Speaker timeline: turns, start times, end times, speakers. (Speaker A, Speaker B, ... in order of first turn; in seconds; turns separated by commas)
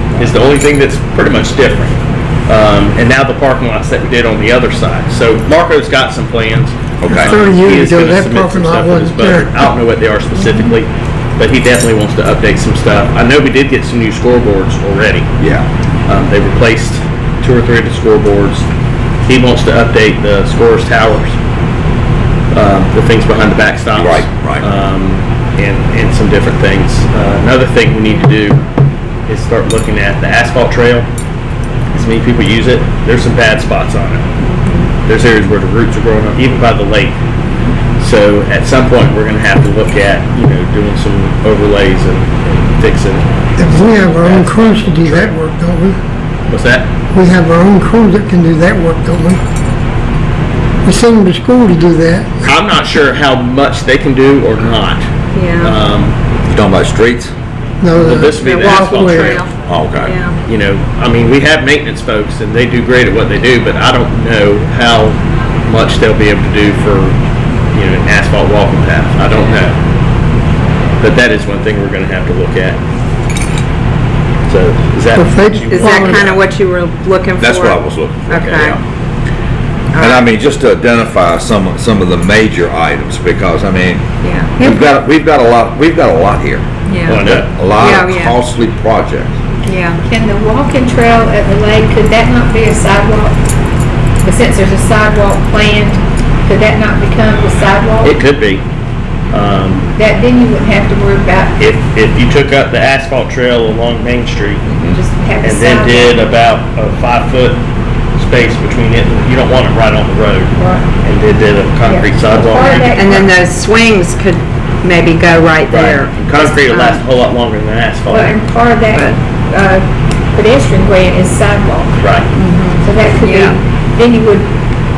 Speaker A: 0.2-15.3, Speaker B: 7.0-7.4, Speaker C: 7.1-9.7, Speaker B: 15.4-15.7, Speaker A: 16.1-18.6, Speaker A: 19.2-21.4, Speaker A: 22.5-28.6, Speaker B: 23.9-24.7, Speaker A: 29.3-31.1, Speaker A: 31.9-34.2, Speaker D: 34.4-34.9, Speaker A: 35.0-37.1, Speaker A: 38.0-45.3, Speaker C: 43.6-46.0, Speaker A: 46.5-46.9, Speaker C: 47.1-49.4, Speaker C: 50.8-52.4, Speaker A: 52.4-55.1, Speaker D: 55.3-55.8, Speaker A: 55.6-56.1, Speaker B: 56.5-57.3, Speaker C: 57.8-59.4, Speaker A: 57.9-59.5, Speaker D: 58.4-59.5, Speaker B: 59.7-60.1, Speaker D: 60.0-60.3, Speaker A: 60.5-67.2, Speaker A: 67.7-69.8, Speaker A: 71.0-72.8, Speaker A: 74.5-76.4, Speaker C: 75.1-76.3, Speaker D: 75.7-78.8, Speaker B: 77.4-78.8, Speaker A: 78.3-78.8, Speaker D: 79.9-80.2, Speaker B: 80.0-84.0, Speaker D: 84.2-84.8, Speaker B: 84.6-86.6, Speaker D: 86.9-87.3, Speaker A: 87.0-87.5, Speaker B: 87.2-89.4, Speaker D: 87.8-88.4, Speaker D: 89.7-90.0, Speaker E: 90.0-93.4, Speaker E: 94.2-98.2, Speaker A: 98.0-98.6, Speaker A: 99.3-99.9, Speaker E: 100.0-101.6, Speaker A: 101.6-104.7, Speaker B: 104.7-105.0, Speaker E: 104.9-106.2, Speaker A: 105.4-107.6, Speaker A: 108.2-113.0, Speaker E: 110.6-110.9, Speaker E: 111.8-113.3, Speaker D: 112.9-117.0, Speaker A: 115.7-118.4, Speaker E: 118.1-122.0, Speaker A: 122.0-122.3, Speaker D: 122.3-123.6, Speaker E: 122.8-124.5